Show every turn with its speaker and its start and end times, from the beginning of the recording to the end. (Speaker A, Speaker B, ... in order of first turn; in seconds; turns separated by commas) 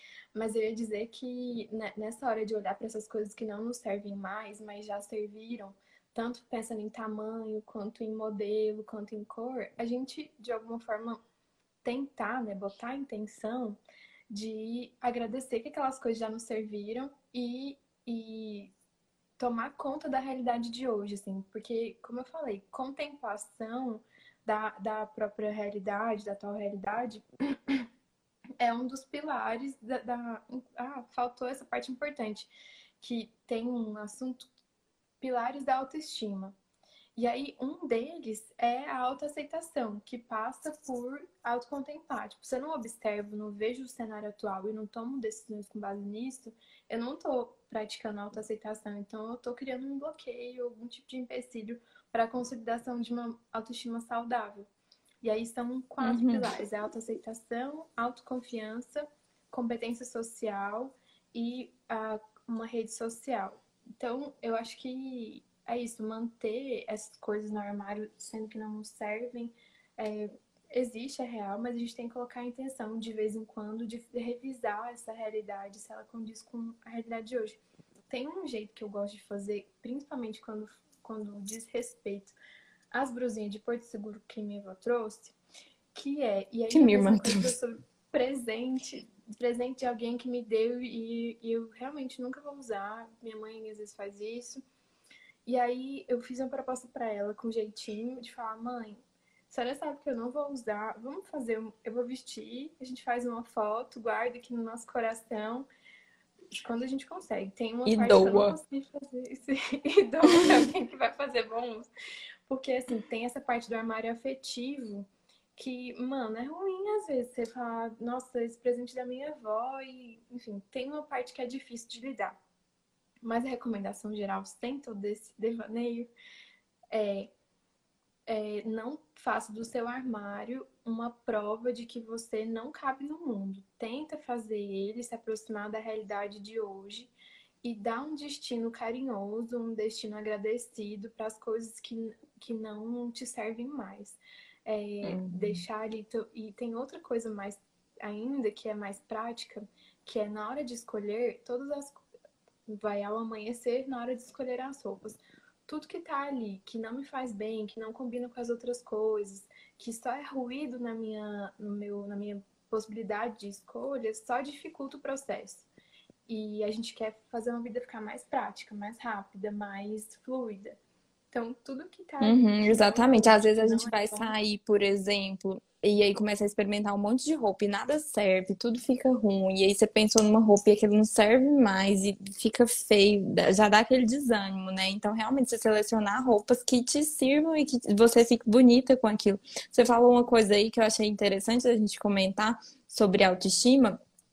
Speaker A: 0.3-11.2, Speaker A: 11.8-13.8, Speaker A: 14.3-18.7, Speaker A: 19.4-27.9, Speaker A: 28.6-34.5, Speaker A: 35.2-36.5, Speaker A: 37.2-54.7, Speaker A: 55.2-77.6, Speaker B: 56.0-56.5, Speaker A: 78.1-82.4, Speaker A: 82.9-85.4, Speaker A: 86.0-94.6, Speaker B: 86.7-87.5, Speaker A: 95.5-105.7, Speaker A: 106.5-111.9, Speaker B: 107.9-108.6, Speaker A: 112.5-122.4, Speaker A: 123.2-126.1, Speaker A: 126.9-127.3, Speaker A: 128.3-152.1, Speaker B: 145.0-145.6, Speaker A: 152.7-165.7, Speaker A: 166.3-170.8, Speaker A: 171.3-174.3, Speaker B: 172.2-194.0